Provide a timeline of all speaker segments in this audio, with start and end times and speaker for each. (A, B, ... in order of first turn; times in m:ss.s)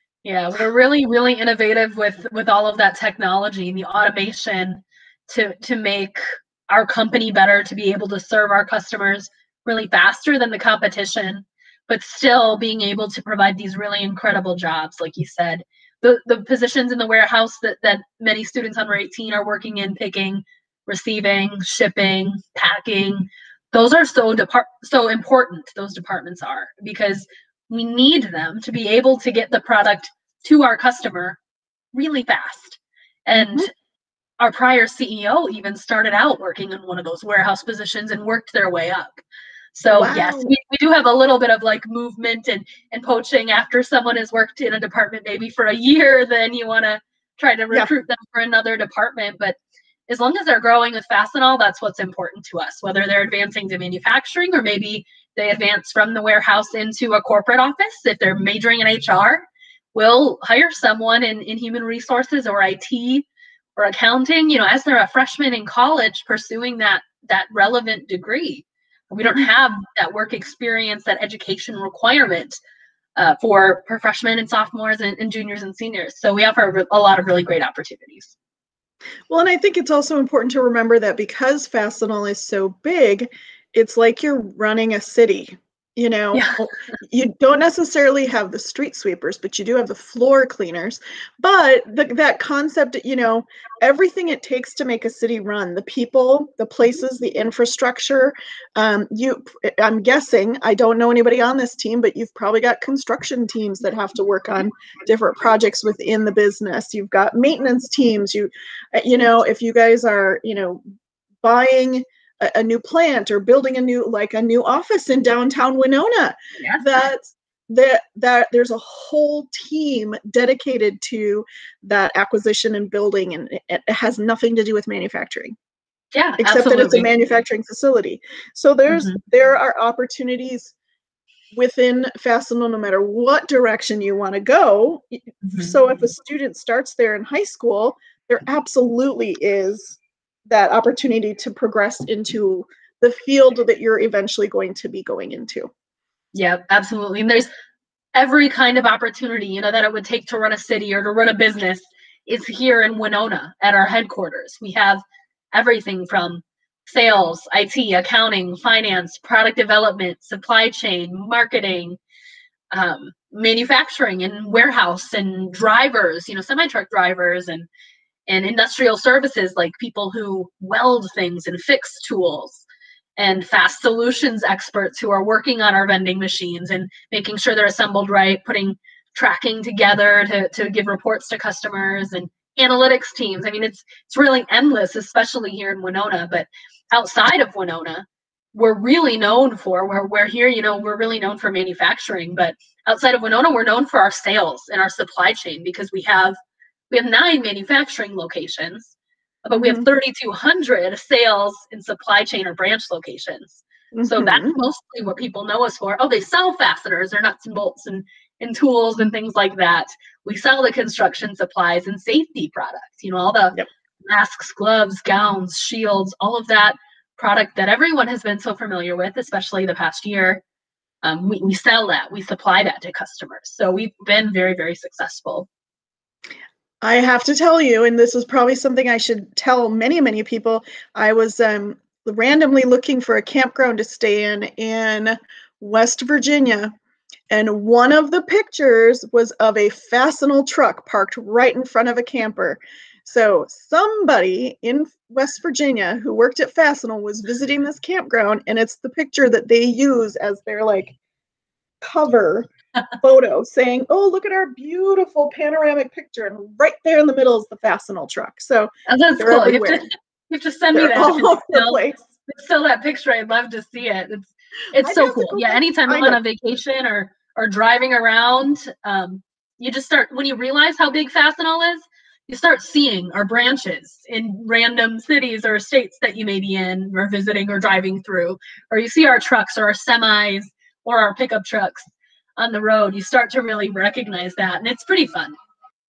0:00.2-0:31.4 A
0:31.9-0:33.7 A
0:33.4-0:33.7 B
0:34.4-0:39.2 A
0:39.7-0:49.6 A
0:39.9-0:40.5 B
0:50.1-1:12.6 A
1:13.2-1:18.3 A
1:19.3-1:50.8 B
1:26.3-1:26.6 A
1:51.4-2:05.5 B
2:06.1-2:07.1 A
2:06.4-2:10.7 B
2:08.9-2:09.2 A
2:11.5-2:25.7 B
2:15.5-2:15.8 A
2:26.3-2:27.5 A
2:28.1-2:35.0 A
2:35.5-2:42.0 A
2:42.7-2:47.7 A
2:48.3-2:52.6 A
2:53.2-3:16.4 A
3:16.9-3:40.4 A
3:19.5-3:19.8 B
3:23.9-3:24.6 B
3:41.0-3:45.5 A
3:46.8-3:56.7 B
3:57.3-4:10.9 B
4:11.8-4:12.5 B
4:13.0-4:19.9 B
4:18.9-4:41.8 A
4:20.7-4:22.0 B
4:24.8-4:26.2 B
4:42.4-4:45.4 A